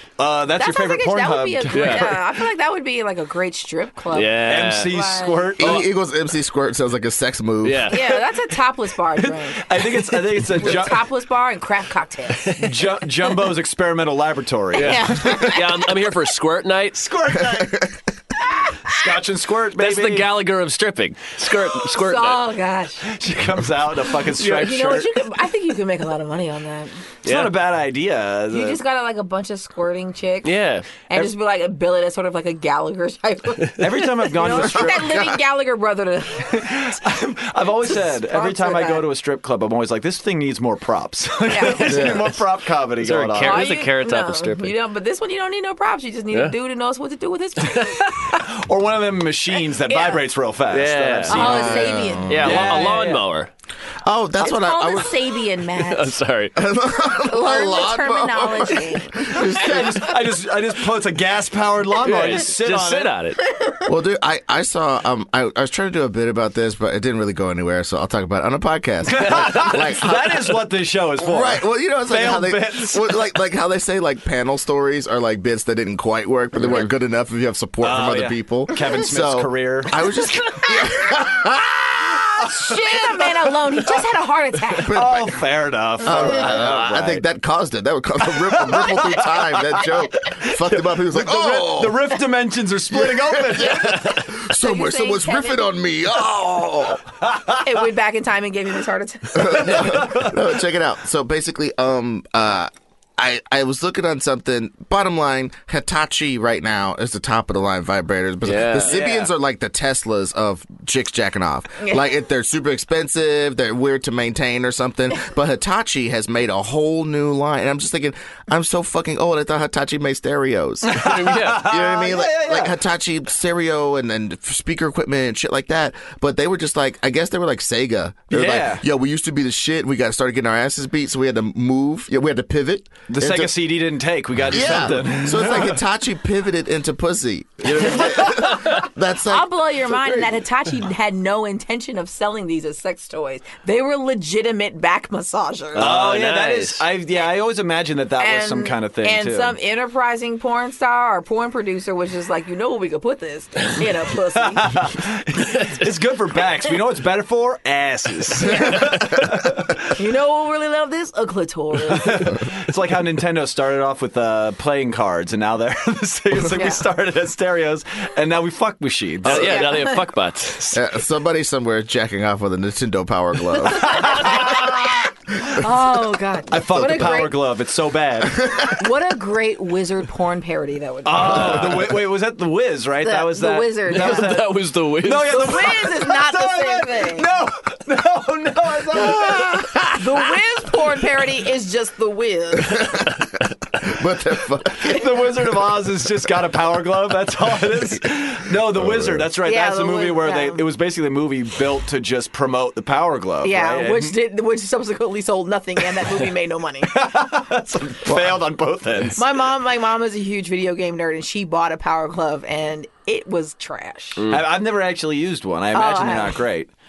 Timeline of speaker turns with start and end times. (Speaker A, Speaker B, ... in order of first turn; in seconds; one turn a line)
Speaker A: 0.2-2.2
Speaker B: 0.6-5.5
Speaker C: 1.7-2.1
Speaker C: 4.1-4.9
Speaker A: 4.4-5.9
Speaker D: 5.6-7.9
Speaker C: 7.6-8.1
Speaker B: 7.9-12.6
Speaker A: 9.2-11.0
Speaker A: 12.5-15.6
Speaker C: 14.7-17.2
Speaker B: 14.8-15.6
Speaker A: 17.0-17.9
Speaker D: 17.5-17.9
Speaker A: 18.8-20.3
Speaker C: 19.8-22.4
Speaker B: 21.9-23.0
Speaker A: 23.1-25.1
Speaker B: 24.4-27.0
Speaker C: 27.2-27.6
Speaker A: 27.2-28.8
Speaker B: 28.5-30.5
Speaker C: 30.4-30.9
Speaker B: 31.1-36.9
Speaker A: 33.8-35.1
Speaker D: 34.6-35.4
Speaker A: 36.5-43.6
Speaker B: 37.9-39.0
Speaker B: 41.5-42.2
Speaker D: 41.8-42.3
Speaker C: 43.0-44.7
Speaker B: 43.4-48.5
Speaker A: 48.3-53.2
Speaker B: 49.9-50.2
Speaker C: 50.7-51.7
Speaker D: 51.3-52.7
Speaker B: 51.3-53.0
Speaker C: 52.3-53.5
Speaker D: 54.0-55.3
Speaker B: 54.4-56.1
Speaker C: 55.9-56.6
Speaker D: 56.5-60.1
Speaker B: 57.2-59.8
Speaker A: 59.5-63.1
Speaker C: 62.0-63.4
Speaker D: 63.8-70.6
Speaker A: 69.1-73.2
Speaker D: 71.2-82.6
Speaker A: 77.8-80.8
Speaker B: 80.3-80.9
Speaker B: 82.4-85.1
Speaker D: 84.7-85.4
Speaker A: 84.8-87.2
Speaker D: 86.0-92.1
Speaker A: 88.4-94.2
Speaker D: 92.9-97.0
Speaker B: 94.3-95.8
Speaker A: 97.2-97.6
Speaker B: 97.6-100.0
Speaker D: 99.3-133.5
Speaker A: 99.6-100.4
Speaker C: 108.4-109.0
Speaker A: 108.9-109.3
Speaker A: 120.8-122.8
Speaker C: 121.0-121.7
Speaker A: 128.3-128.8
Speaker A: 133.1-135.8
Speaker D: 134.5-140.4
Speaker C: 137.9-138.8
Speaker B: 139.2-145.9
Speaker C: 145.7-146.8
Speaker A: 145.7-149.6
Speaker B: 148.2-154.9
Speaker A: 154.4-159.8
Speaker B: 159.9-162.4
Speaker A: 161.9-169.8
Speaker B: 166.5-166.8
Speaker C: 169.2-170.7
Speaker B: 169.3-170.0
Speaker D: 170.7-174.8
Speaker B: 173.8-174.7
Speaker A: 173.9-174.7
Speaker B: 175.5-177.4
Speaker A: 176.5-178.5
Speaker D: 178.4-178.7
Speaker B: 178.6-181.8
Speaker A: 181.0-189.9
Speaker C: 181.2-182.0
Speaker B: 183.0-184.5
Speaker C: 183.9-185.7
Speaker B: 185.3-187.3
Speaker B: 189.8-193.0
Speaker D: 192.7-193.3
Speaker D: 193.8-195.2
Speaker A: 194.8-204.1
Speaker D: 198.7-199.2
Speaker B: 199.4-200.6
Speaker B: 203.4-206.9
Speaker A: 206.9-209.3
Speaker D: 208.1-208.4
Speaker B: 209.2-214.2
Speaker C: 214.2-214.5
Speaker A: 214.3-216.7
Speaker B: 215.7-216.4